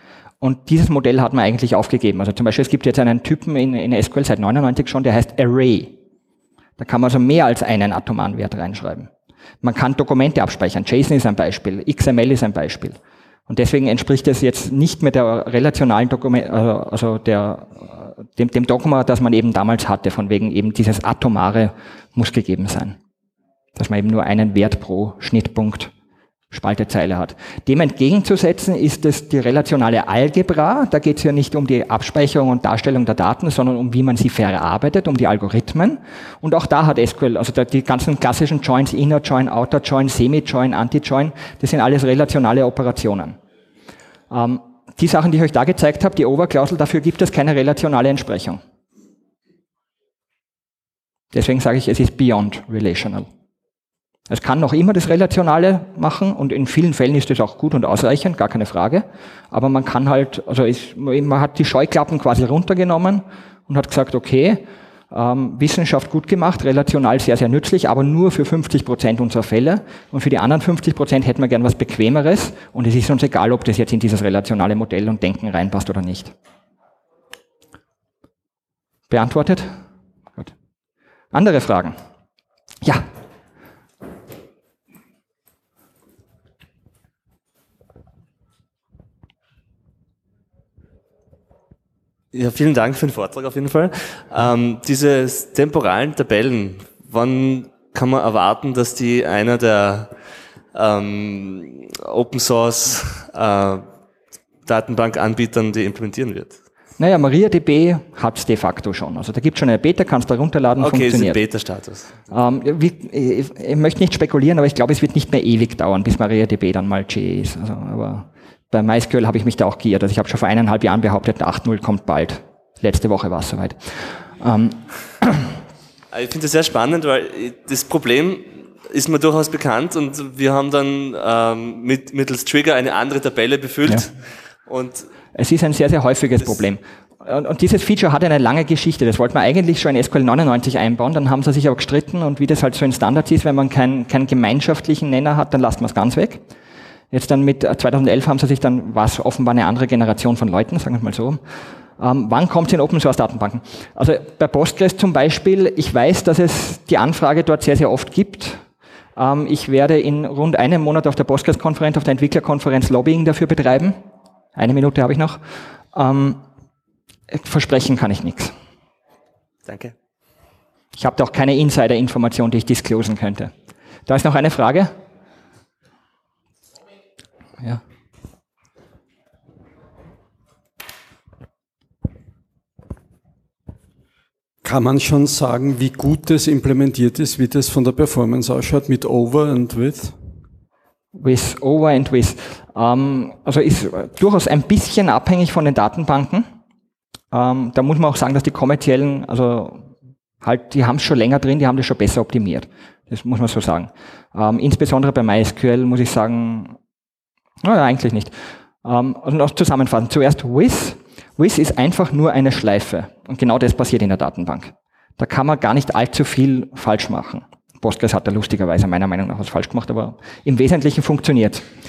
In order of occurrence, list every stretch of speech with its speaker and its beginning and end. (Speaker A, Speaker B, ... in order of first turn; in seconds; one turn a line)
Speaker A: 0.4-5.9
Speaker A: 6.8-9.1
Speaker A: 9.6-13.0
Speaker A: 13.5-23.0
Speaker A: 23.8-25.9
Speaker A: 26.5-43.4
Speaker A: 44.3-48.6
Speaker A: 51.3-53.3
Speaker A: 54.3-76.3
Speaker A: 79.1-79.8
Speaker A: 81.3-82.0
Speaker B: 92.3-100.1
Speaker B: 100.7-103.8
Speaker B: 104.7-106.6
Speaker A: 107.0-111.4
Speaker B: 110.8-112.2
Speaker A: 112.3-125.4
Speaker B: 126.1-135.1
Speaker A: 135.3-146.4
Speaker A: 147.1-151.4
Speaker A: 152.0-158.6
Speaker A: 159.2-164.0
Speaker A: 164.6-165.4
Speaker A: 165.9-166.4
Speaker A: 167.3-168.5
Speaker B: 169.7-169.9
Speaker A: 170.9-173.5
Speaker A: 174.1-174.9
Speaker C: 184.6-190.1
Speaker A: 191.1-196.4
Speaker A: 197.3-199.8
Speaker A: 200.4-206.8
Speaker A: 207.6-221.7